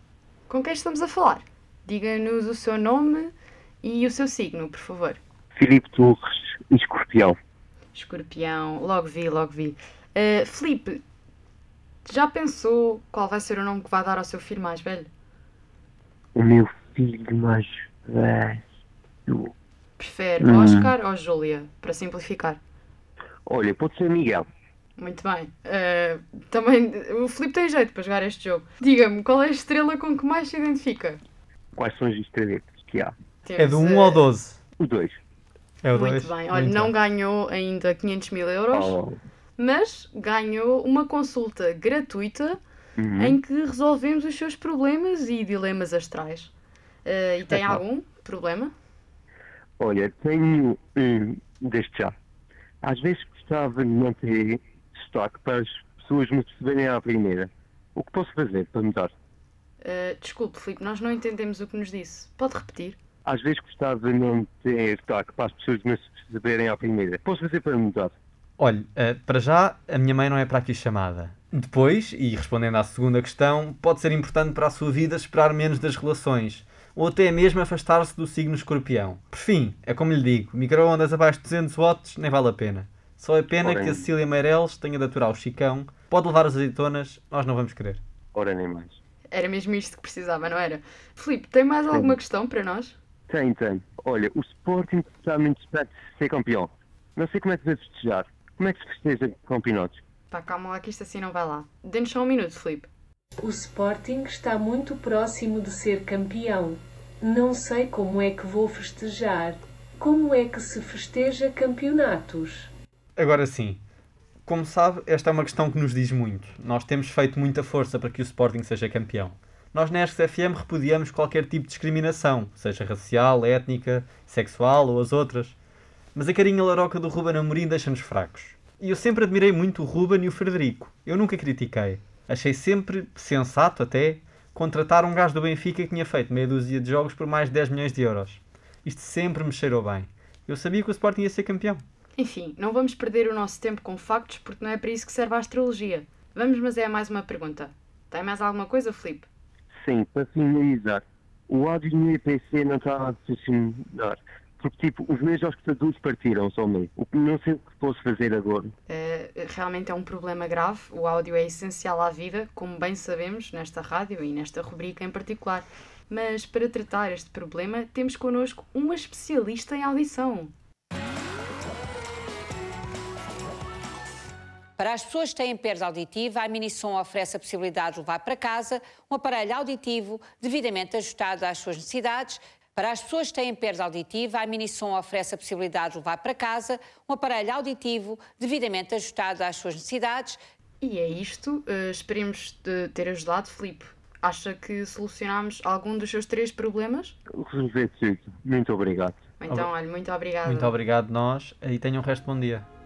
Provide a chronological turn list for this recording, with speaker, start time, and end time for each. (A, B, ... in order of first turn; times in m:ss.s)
0:00.5-0:05.2 A
0:05.6-0:07.4 B
0:07.9-0:11.0 A
0:12.0-0:15.1 A
0:16.3-0:18.6 B
0:19.3-0:19.5 B
0:20.0-0:22.6 A
0:20.4-0:20.9 B
0:23.4-0:24.5 B
0:25.0-0:31.2 A
0:31.8-0:33.1 B
0:33.4-0:34.2 A
0:33.6-0:34.6 C
0:34.8-0:35.2 B
0:35.8-0:36.9 C
0:35.9-0:39.0 A
0:38.7-0:39.2 B
0:39.6-0:42.6 A
0:43.0-0:43.4 B
0:43.2-0:46.5 A
0:47.0-0:48.7 A
0:47.5-0:47.8 B
0:49.8-0:52.1 B
0:52.8-0:59.1 B
0:59.8-1:03.0 A
1:03.2-1:08.1 B
1:08.6-1:28.0 C
1:23.6-1:24.1 B
1:28.3-1:29.0 B
1:29.3-1:33.0 A
1:31.9-1:32.2 B
1:33.3-1:40.0 B
1:40.3-1:42.9 A
1:43.4-1:52.7 D
1:53.2-1:53.8 C
1:54.4-2:05.6 C
2:06.1-2:21.8 C
2:22.2-2:29.3 A
2:29.7-2:38.7 B
2:38.9-2:50.5 A
2:54.8-3:10.4 E
3:10.8-3:17.2 A
3:17.3-3:19.2 B
3:19.4-3:20.7 A
3:20.4-3:22.7 C